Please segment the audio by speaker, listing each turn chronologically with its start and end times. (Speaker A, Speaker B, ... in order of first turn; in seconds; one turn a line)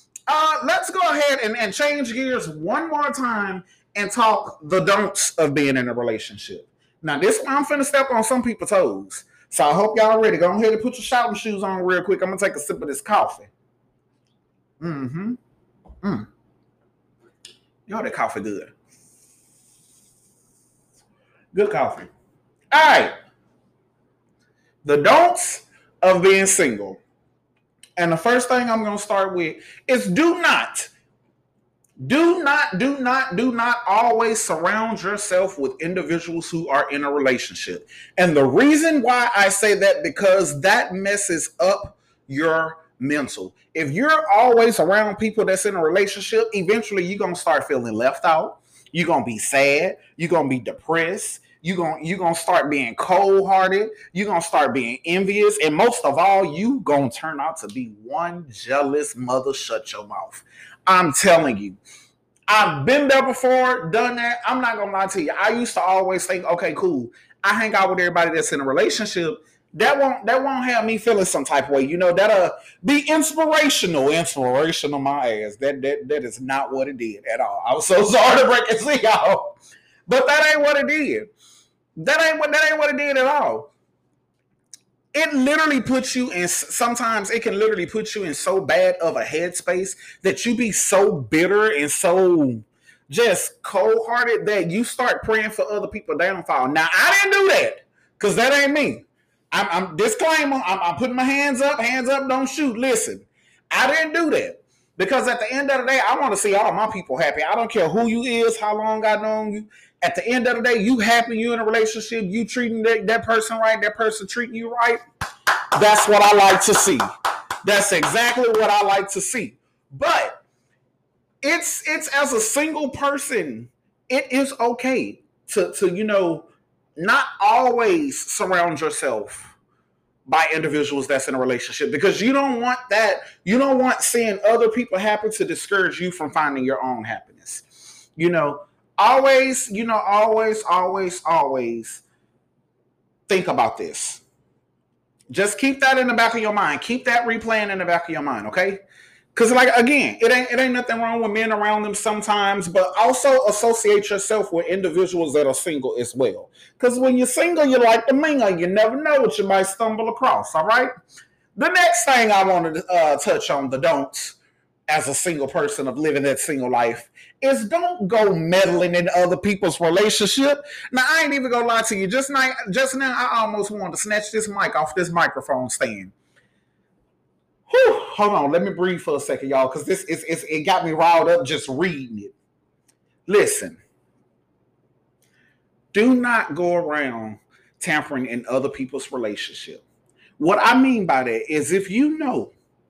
Speaker A: 0.3-13.5
Speaker A: 14.8-15.4
Speaker A: 16.0-16.3
Speaker A: 17.9-18.7
Speaker A: 21.5-22.1
Speaker A: 22.7-23.1
Speaker A: 24.8-27.0
Speaker A: 28.0-30.9
Speaker A: 32.0-61.8
Speaker A: 62.5-79.6
Speaker A: 80.1-81.3
Speaker A: 82.0-83.7
Speaker A: 85.1-115.0
Speaker A: 115.8-117.0
Speaker A: 117.6-120.4
Speaker A: 121.4-129.5
Speaker A: 130.3-137.7
Speaker A: 138.2-142.0
Speaker A: 143.3-144.2
Speaker A: 145.3-148.8
Speaker A: 149.3-160.9
Speaker A: 161.6-164.4
Speaker A: 164.9-176.1
Speaker A: 177.7-182.3
Speaker A: 183.3-183.8
Speaker A: 185.9-189.8
Speaker A: 190.4-192.5